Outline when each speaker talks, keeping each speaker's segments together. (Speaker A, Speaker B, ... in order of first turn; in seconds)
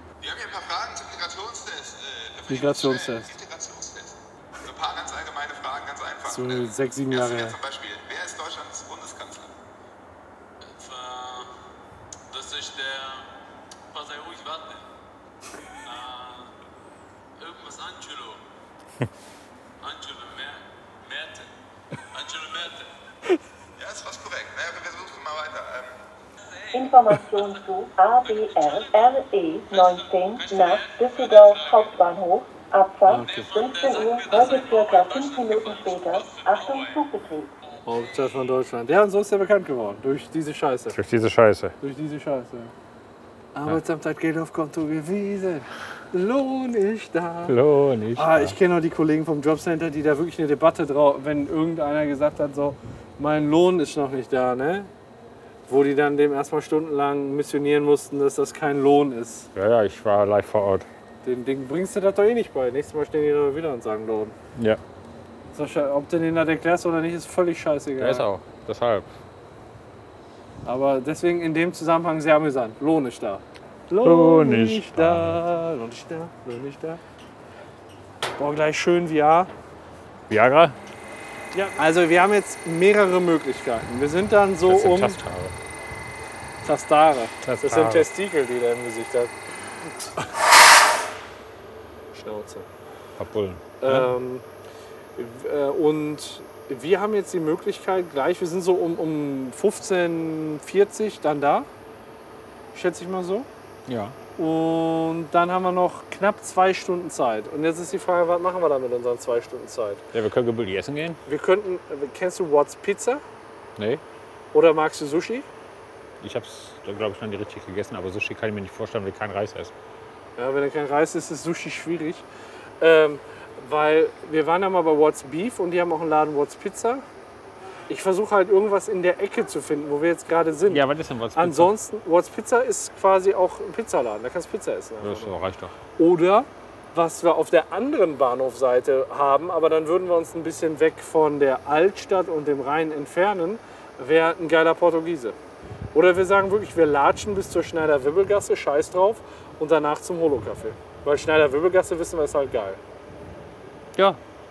Speaker A: 0.2-6.6, 7.1-9.5, 23.8-25.9
Speaker B: 2.5-3.3, 6.3-7.5, 33.0-33.6, 37.8-41.0, 41.8-42.7, 43.5-47.5, 48.1-54.9, 55.7-59.5, 61.2-64.3, 65.5-68.2, 70.6-77.0, 78.4-79.5, 81.5-85.2, 86.6-89.3, 92.1-92.7, 93.8-94.4, 95.2-101.7, 102.7-103.5, 104.4-110.0, 111.2-113.2, 114.5-115.5, 120.4-122.2, 122.8-127.0, 127.9-130.8, 131.3-135.3, 136.0-145.3, 145.9-152.8
Speaker C: 10.8-11.5, 12.3-13.2, 13.9-14.8, 15.9-16.5, 17.4-18.4, 19.8-21.4, 22.1-22.9
Speaker D: 26.7-37.5
Speaker E: 40.9-41.7, 47.5-48.5, 59.5-60.9, 64.5-64.8, 68.0-69.1, 74.0-75.4, 80.3-80.8, 84.6-85.5, 87.4-88.1, 93.2-94.1, 103.8-104.2, 110.1-111.2, 113.8-114.0, 116.2-119.7, 130.7-131.7, 135.0-135.7